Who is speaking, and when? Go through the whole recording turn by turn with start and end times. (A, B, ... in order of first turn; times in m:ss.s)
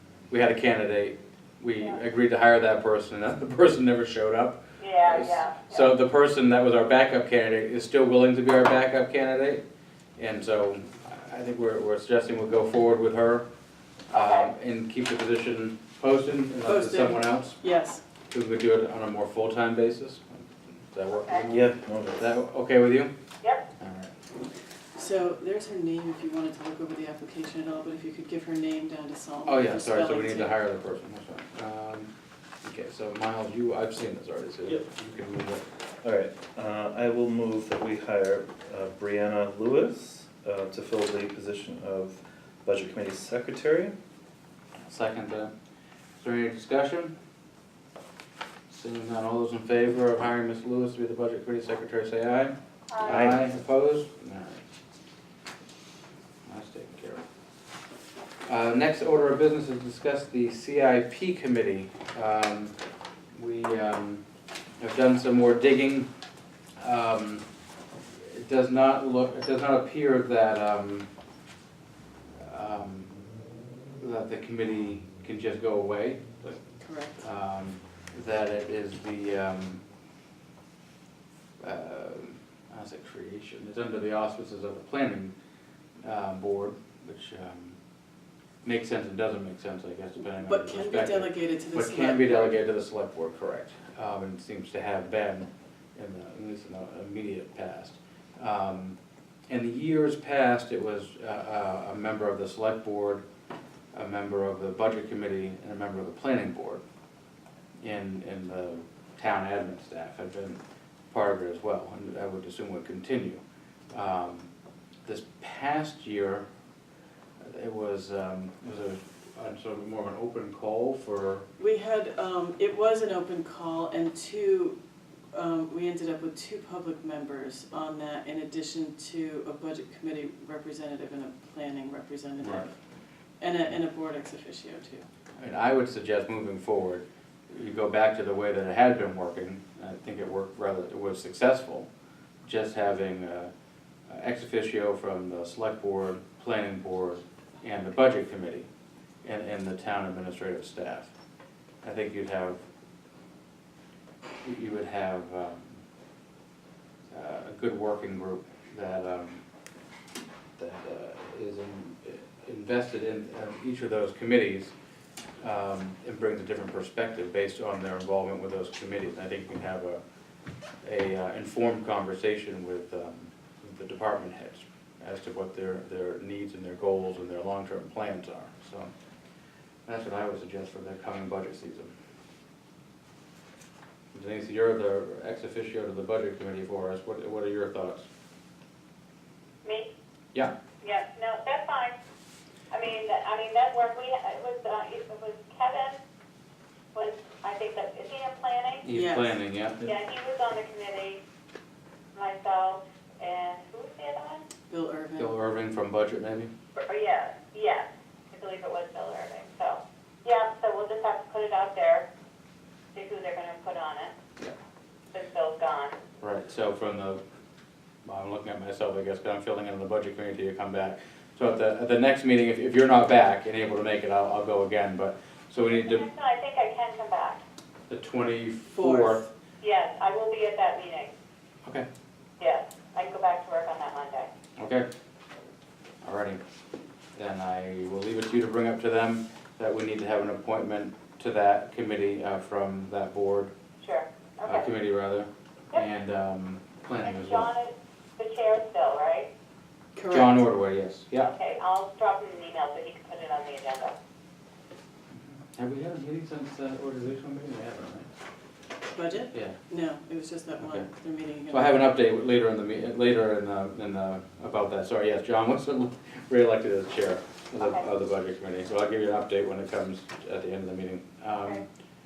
0:00.3-0:09.6 A
0:04.8-0:05.9 B
0:10.2-0:13.5 A
0:14.1-0:17.6 A
0:14.1-0:14.5 B
0:16.6-0:18.0 C
0:18.3-0:23.1 A
0:21.2-0:21.4 B
0:21.5-0:22.4 D
0:23.8-0:24.1 A
0:24.9-0:30.5 C
0:29.4-0:32.1 A
0:32.6-0:35.6 A
0:36.0-0:43.9 D
0:44.8-0:45.5 A
0:46.2-0:47.1 A
0:48.7-0:54.6 A
0:52.9-0:53.3 B
0:53.0-0:53.5 D
0:56.4-0:57.2 A
0:58.4-1:02.7 A
1:03.3-1:04.2 A
1:04.8-1:06.1 A
1:06.8-1:07.4 A
1:08.2-1:11.1 A
1:12.4-1:13.1 A
1:14.0-1:16.6 A
1:16.8-1:17.3 C
1:17.2-1:19.8 A
1:21.6-1:25.3 A
1:26.0-1:27.8 A
1:28.6-1:39.0 A
1:30.4-1:32.6 C
1:39.5-1:43.2 A
1:43.9-1:46.8 A
1:47.8-1:53.4 A
1:53.9-1:54.5 A
1:55.0-1:56.4 A
1:57.4-2:01.5 A
2:01.6-2:04.8 C
2:05.3-2:12.8 C
2:12.4-2:12.7 A
2:13.4-2:15.1 C
2:15.4-2:21.9 A
2:22.4-2:23.5 A
2:24.1-2:28.7 A
2:29.2-2:31.1 A
2:31.8-2:32.6 A
2:34.4-2:35.8 A
2:37.1-2:39.4 A
2:40.6-2:44.7 A
2:45.4-2:50.0 A
2:50.8-2:58.9 A
2:59.9-3:01.9 A
3:04.1-3:08.1 A
3:09.6-3:09.9 B
3:10.8-3:12.0 B
3:12.7-3:16.0 B
3:16.9-3:18.8 B
3:18.8-3:19.9 A
3:18.9-3:19.4 C
3:19.8-3:21.2 B
3:22.1-3:24.4 B
3:24.7-3:25.4 C
3:25.2-3:26.5 A
3:26.8-3:32.1 B
3:32.9-3:34.2 B
3:35.1-3:36.0 B
3:36.2-3:37.2 A
3:38.0-3:46.0 A
3:45.7-3:47.4 B
3:47.9-3:49.2 A
3:48.7-3:49.3 C
3:49.6-3:51.1 B
3:52.4-3:54.3 B
3:54.6-3:54.9 A
3:56.0-3:56.4 A
3:57.1-4:03.5 A
4:03.8-4:04.7 B
4:04.4-4:07.5 A
4:07.0-4:09.3 B
4:09.9-4:10.4 C
4:10.1-4:11.3 A
4:11.2-4:14.0 B
4:15.1-4:18.1 A
4:18.9-4:21.9 C
4:19.3-4:19.6 A
4:20.6-4:20.9 A
4:21.5-4:31.6 A
4:27.6-4:27.8 B